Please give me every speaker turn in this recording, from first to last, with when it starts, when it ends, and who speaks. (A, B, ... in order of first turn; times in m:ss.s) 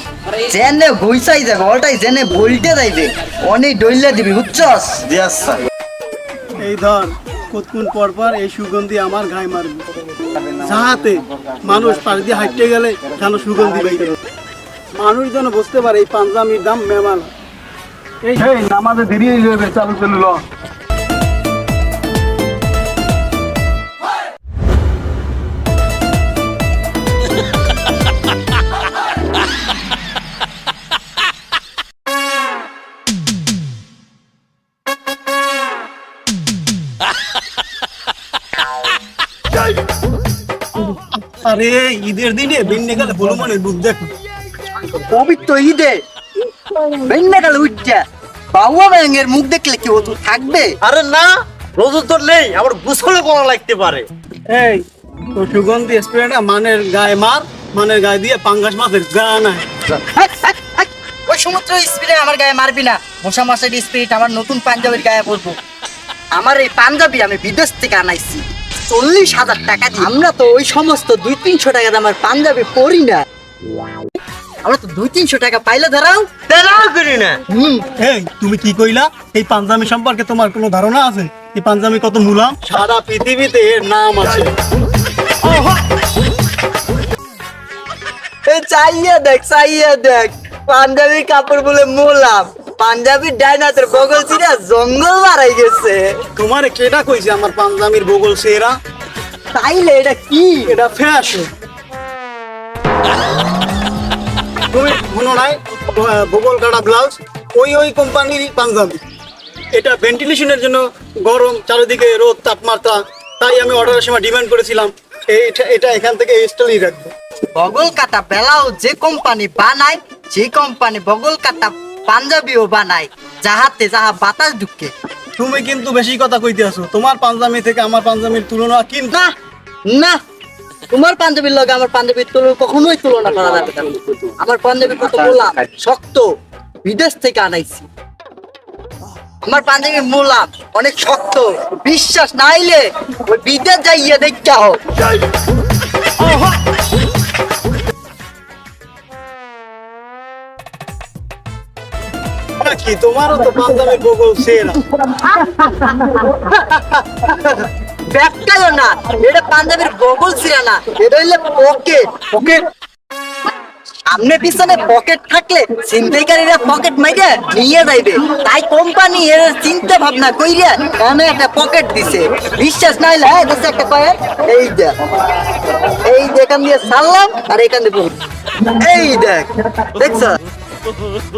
0:00.3-0:05.6 A
0:06.6-0:09.9 B
0:10.4-0:14.2 B
0:15.0-0:17.3 B
0:18.2-0:20.4 B
0:41.4-0:44.1 B
0:44.9-0:46.0 A
0:46.8-0:50.8 A
0:50.8-0:51.3 B
0:51.8-0:54.1 C
0:52.2-0:52.6 B
0:54.5-0:59.7 B
0:59.9-1:05.6 A
1:06.3-1:13.2 A
1:14.6-1:17.9 A
1:18.0-1:24.6 B
1:28.4-1:36.2 A
1:36.3-1:38.8 B
1:39.5-1:40.7 A
1:40.7-1:41.5 B
1:44.7-1:49.0 B
1:49.7-1:57.1 B
1:57.5-2:04.9 A
2:05.4-2:09.2 B
2:09.9-2:10.2 A
2:10.9-2:16.3 A
2:16.8-2:17.9 A
2:19.4-2:24.8 A
2:32.6-2:34.8 B
2:35.1-2:42.6 A
2:44.1-3:00.4 A